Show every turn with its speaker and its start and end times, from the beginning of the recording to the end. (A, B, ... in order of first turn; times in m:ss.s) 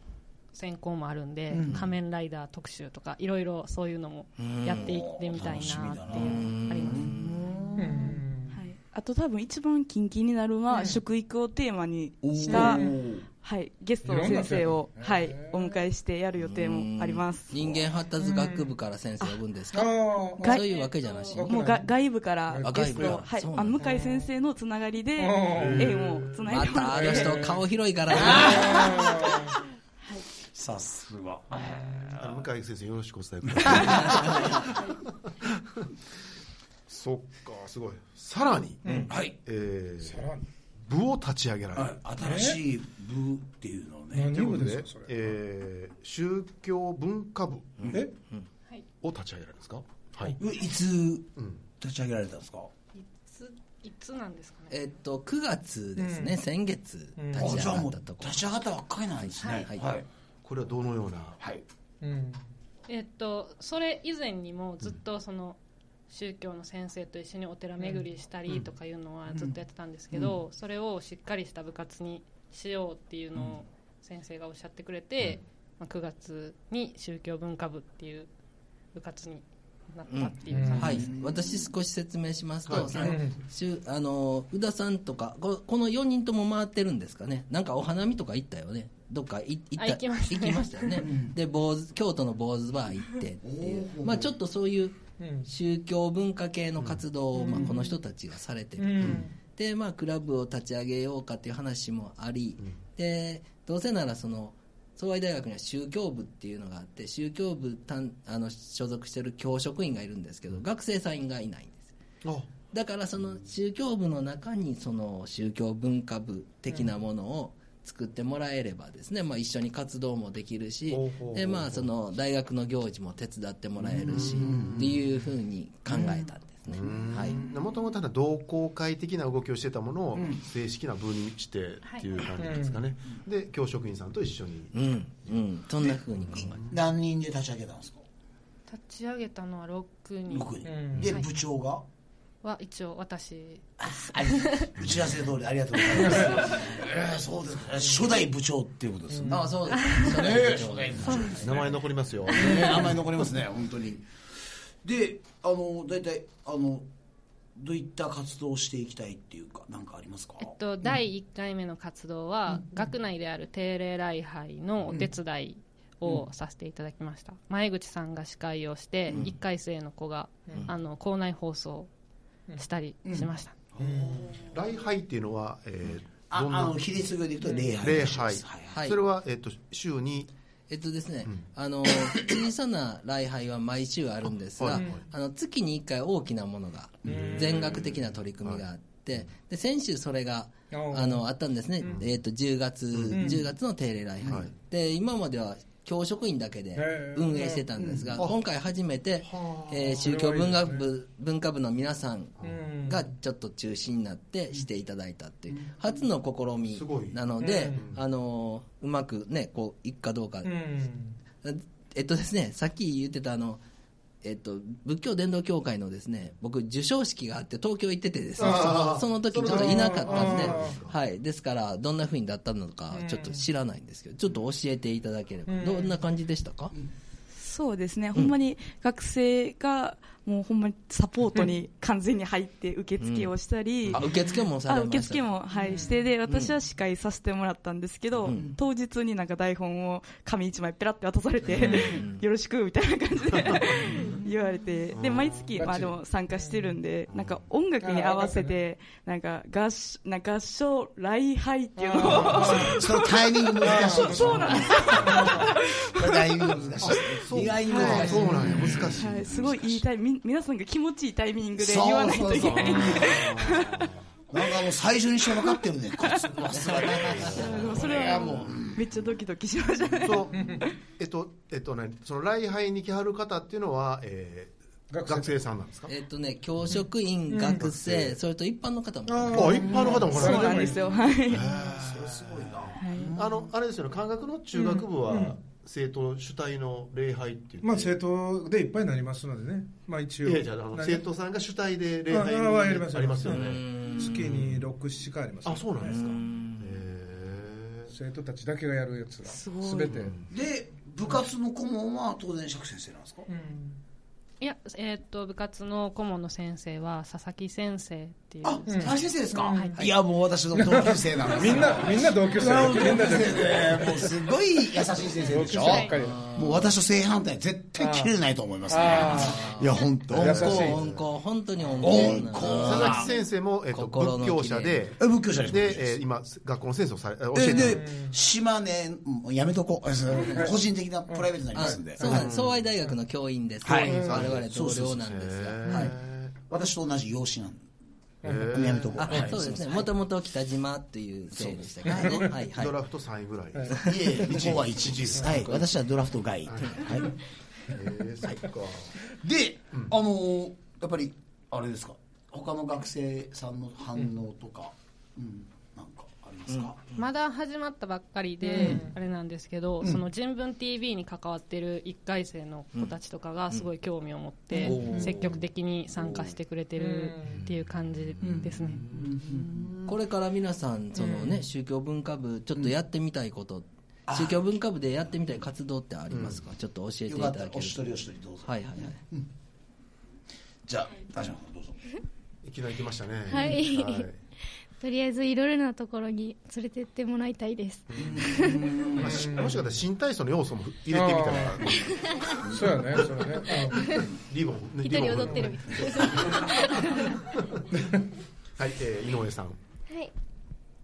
0:00.5-0:07.2 A
0:01.5-0:01.9 B
0:04.4-0:04.9 C
0:04.8-0:08.2 B
0:06.1-0:07.3 C
0:07.8-0:08.6 D
0:08.5-0:17.6 E
0:10.7-0:11.0 D
0:12.2-0:13.3 B
0:12.4-0:13.0 D
0:14.0-0:15.8 D
0:16.4-0:21.5 C
0:18.2-0:18.8 D
0:19.7-0:20.6 D
0:20.4-0:20.7 E
0:20.6-0:21.4 A
0:21.3-0:24.3 D
0:21.4-0:27.4 E
0:22.6-0:23.8 C
0:25.2-0:26.1 D
0:25.6-0:26.7 F
0:26.5-0:28.8 C
0:26.8-0:27.6 D
0:28.1-0:28.8 B
0:28.3-0:29.5 D
0:30.5-0:32.4 B
0:32.2-0:35.1 F
0:33.6-0:34.6 B
0:36.9-0:40.3 F
0:38.8-0:39.1 D
0:39.1-0:39.4 B
0:40.0-0:40.4 D
0:40.9-0:42.0 F
0:41.8-0:44.4 B
0:42.2-0:42.6 D
0:44.1-0:45.3 D
0:44.3-0:47.9 F
0:47.8-0:48.5 C
0:49.0-0:50.4 F
0:50.4-0:52.7 B
0:51.4-0:51.6 F
0:53.0-0:54.8 A
0:54.7-0:58.5 C
0:56.0-0:56.4 D
0:57.2-0:57.6 D
0:57.4-1:00.1 B
0:59.2-0:59.9 C
0:59.4-0:59.7 A
1:00.4-1:01.4 F
1:02.0-1:02.4 D
1:02.9-1:05.6 A
1:06.1-1:18.3 A
1:07.8-1:08.1 D
1:18.9-1:21.1 A
1:20.1-1:51.9 C
1:20.5-1:21.1 D
1:20.9-1:21.6 B
1:22.7-1:23.2 F
1:22.9-1:23.4 D
1:29.8-1:31.1 A
1:31.0-1:31.4 B
1:33.4-1:34.3 B
1:35.2-1:35.5 D
1:37.3-1:38.0 D
1:38.8-1:39.4 D
1:52.2-1:52.5 F
1:52.7-2:07.4 C
2:00.9-2:01.9 F
2:03.8-2:05.0 F
2:04.4-2:04.8 B
2:06.7-2:14.8 F
2:06.9-2:07.6 B
2:10.2-2:10.4 B
2:11.8-2:12.2 A
2:12.3-2:12.9 D
2:14.7-2:16.6 C
2:16.3-2:18.0 B
2:16.4-2:16.7 F
2:18.7-2:21.3 A
2:20.3-2:21.8 B
2:20.6-2:21.1 D
2:22.4-2:24.7 A
2:23.8-2:31.7 B
2:26.0-2:26.7 D
2:27.8-2:28.2 D
2:29.1-2:29.5 D
2:29.4-2:31.6 C
2:31.4-2:32.7 F
2:32.3-2:34.1 B
2:34.8-2:36.9 B
2:37.6-2:40.6 B
2:40.4-2:51.9 A
2:52.6-2:53.6 A
2:53.0-2:54.6 B
2:53.8-2:54.2 D
2:54.5-2:57.1 F
2:56.3-2:58.7 B
2:57.8-3:00.3 F
2:58.7-2:59.0 C
3:00.7-3:30.6 C
3:04.6-3:05.0 F
3:04.8-3:05.0 D
3:07.0-3:09.3 F
3:07.0-3:07.5 D
3:10.7-3:11.3 D
3:12.9-3:13.4 F
3:13.1-3:13.5 D
3:14.2-3:14.5 F
3:16.7-3:17.9 D
3:19.2-3:19.9 F
3:19.6-3:20.9 D
3:22.4-3:23.1 D
3:26.7-3:28.0 F
3:27.4-3:27.9 D
3:30.4-3:31.2 D
3:31.4-3:33.6 C
3:34.2-3:46.7 C
3:38.4-3:41.0 F
3:38.4-3:40.8 D
3:42.9-3:43.5 D
3:45.5-3:46.0 D
3:47.4-3:54.1 E
3:53.0-3:53.3 C
3:53.9-3:55.3 C
3:54.6-4:16.3 E
3:55.5-3:56.1 D
3:56.3-3:56.6 C
3:58.2-3:58.5 C
4:01.6-4:01.9 D
4:01.6-4:02.2 C
4:04.9-4:05.5 F
4:05.6-4:06.8 D
4:07.1-4:07.4 F
4:07.8-4:08.6 D
4:11.8-4:12.9 D
4:12.3-4:19.5 B
4:13.6-4:15.6 D
4:16.6-4:19.8 F
4:17.7-4:23.9 E
4:17.9-4:18.9 D
4:21.6-4:23.6 B
4:22.7-4:24.0 F
4:24.3-4:28.8 B
4:25.4-4:26.2 E
4:26.5-4:27.5 C
4:27.4-4:30.7 E
4:30.0-4:35.9 F
4:30.3-4:30.7 D
4:34.9-4:35.4 D
4:35.9-4:39.8 C
4:36.7-4:37.7 D
4:37.6-4:38.2 F
4:39.1-4:41.1 D
4:39.3-4:40.7 F
4:40.1-4:41.5 E
4:41.3-4:48.0 F
4:41.6-4:43.5 B
4:42.8-4:43.1 E
4:44.5-4:44.9 E
4:45.0-4:45.4 D
4:47.6-4:51.1 D
4:50.2-4:54.7 F
4:52.1-4:56.1 D
4:53.3-4:54.3 C
4:55.4-4:57.9 F
4:55.8-4:56.7 C
4:57.9-5:00.2 D
4:59.3-5:00.0 E
4:59.9-5:00.2 F
5:00.3-5:03.3 B
5:03.3-5:03.8 D
5:04.4-5:09.9 A
5:08.4-5:20.9 B
5:08.7-5:09.8 D
5:10.5-5:14.2 D
5:15.2-5:16.2 D
5:15.6-5:16.0 A
5:15.9-5:16.7 C
5:17.8-5:18.1 D
5:18.7-5:20.8 D
5:19.0-5:23.1 C
5:20.5-5:20.8 F
5:21.7-5:27.9 F
5:21.8-5:23.1 B
5:23.7-5:24.8 C
5:25.0-5:26.0 B
5:27.3-5:32.1 B
5:27.6-5:28.2 D
5:30.2-5:32.3 D
5:31.5-5:36.0 C
5:32.0-5:32.7 F
5:33.6-5:34.9 B
5:33.9-5:36.4 F
5:33.9-5:34.2 D
5:35.7-5:35.9 B
5:36.5-5:37.7 B
5:38.2-5:38.6 D
5:38.2-5:39.5 F
5:38.5-5:39.9 B
5:39.0-5:42.8 C
5:41.4-5:42.2 B
5:42.1-5:45.6 F
5:43.8-5:47.1 B
5:46.5-5:47.1 F
5:47.7-5:48.9 F
5:49.2-5:56.8 B
5:56.5-5:57.1 C
5:57.0-6:08.9 A
5:58.4-5:59.0 D
6:04.6-6:05.3 B
6:04.6-6:04.9 D
6:06.8-6:07.5 D
6:08.2-6:09.9 F
6:08.2-6:09.7 B
6:09.9-6:19.0 C
6:11.0-6:11.4 D
6:14.1-6:14.4 B
6:16.1-6:16.4 F
6:17.1-6:19.3 B
6:20.7-6:21.8 B
6:22.4-6:24.2 F
6:23.3-6:24.1 G
6:24.8-6:28.7 G
6:27.9-6:28.2 F
6:28.0-6:29.2 B
6:28.9-6:32.6 F
6:29.0-6:29.6 D
6:30.9-6:31.7 D
6:32.4-6:33.8 D
6:33.9-6:37.6 F
6:34.8-6:37.1 G
6:38.6-6:39.6 F